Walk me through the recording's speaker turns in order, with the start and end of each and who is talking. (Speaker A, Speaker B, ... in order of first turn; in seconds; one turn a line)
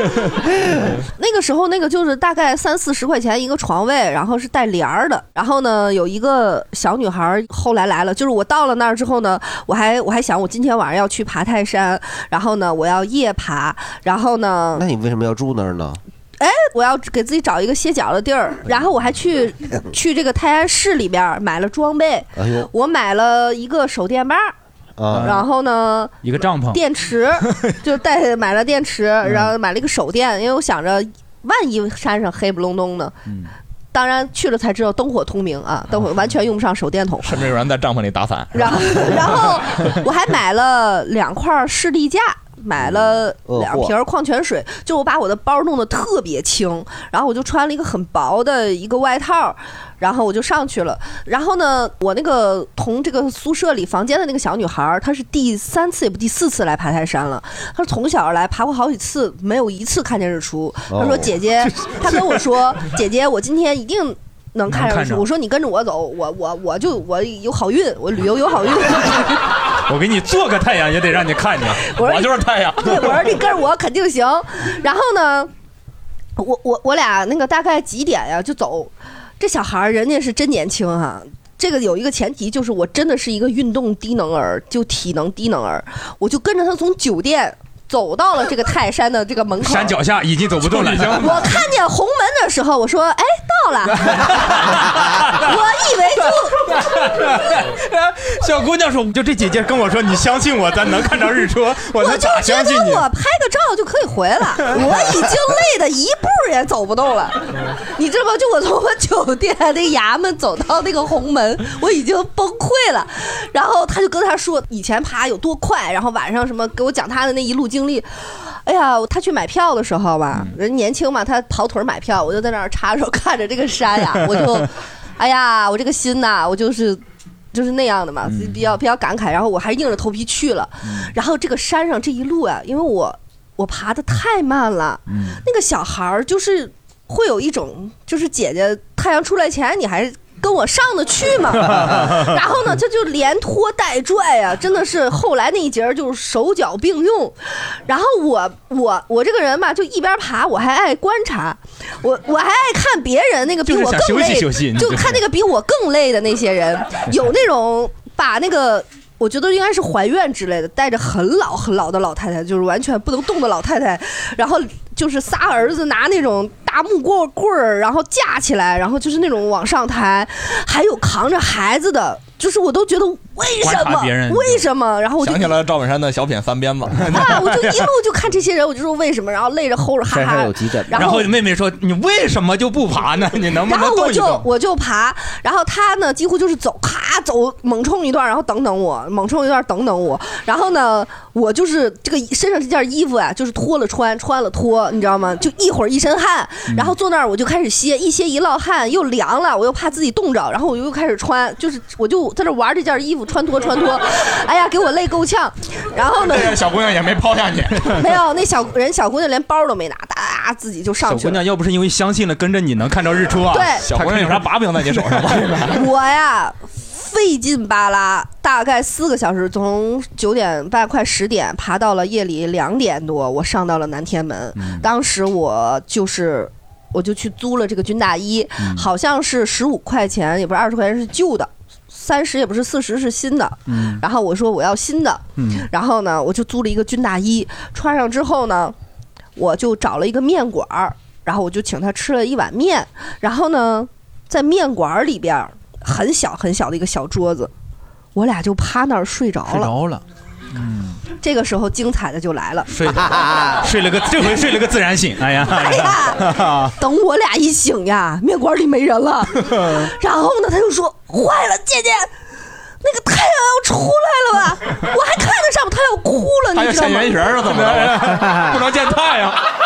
Speaker A: 0.4-1.0
Speaker B: 1.1-14.8
Speaker A: 14.8-16.0
Speaker B: 16.4-24.5
Speaker A: 22.4-22.7
Speaker A: 25.0-25.4
Speaker C: 25.1-25.4
Speaker B: 25.1-33.1
Speaker C: 26.2-26.8
Speaker C: 29.2-29.5
Speaker C: 33.3-33.5
Speaker B: 33.9-37.5
Speaker D: 37.2-39.3
Speaker B: 38.5-69.4
Speaker A: 42.8-43.9
Speaker A: 60.9-61.3
Speaker C: 61.7-62.4
Speaker C: 64.7-65.2
Speaker C: 69.8-71.9
Speaker B: 71.8-75.5
Speaker D: 72.0-73.3
Speaker B: 76.4-90.0
Speaker C: 89.6-91.5
Speaker D: 90.6-91.4
Speaker B: 91.2-94.6
Speaker C: 94.0-95.5
Speaker B: 95.3-96.8
Speaker C: 96.6-103.0
Speaker B: 101.9-127.0
Speaker B: 127.5-175.6
Speaker C: 128.2-128.6
Speaker C: 130.8-131.1
Speaker C: 135.1-135.4
Speaker C: 141.7-142.3
Speaker C: 153.7-155.2
Speaker C: 173.6-174.6
Speaker D: 175.2-177.1
Speaker C: 177.0-177.9
Speaker B: 177.1-181.3
Speaker A: 180.1-181.2
Speaker C: 180.9-184.4
Speaker B: 183.6-206.6
Speaker C: 196.7-196.9
Speaker D: 206.2-208.0
Speaker B: 207.9-211.4
Speaker C: 211.0-215.7
Speaker B: 213.5-213.9
Speaker D: 213.8-215.8
Speaker B: 215.7-238.7
Speaker C: 224.6-224.9
Speaker C: 228.6-228.9
Speaker C: 233.7-234.0
Speaker C: 235.4-235.7
Speaker B: 239.3-247.5
Speaker B: 248.1-249.7
Speaker C: 249.5-251.0
Speaker B: 251.1-253.0
Speaker C: 252.7-256.7
Speaker A: 252.9-253.6
Speaker B: 255.4-262.1
Speaker C: 259.4-259.9
Speaker B: 262.8-267.4
Speaker D: 266.5-269.5
Speaker C: 267.5-268.5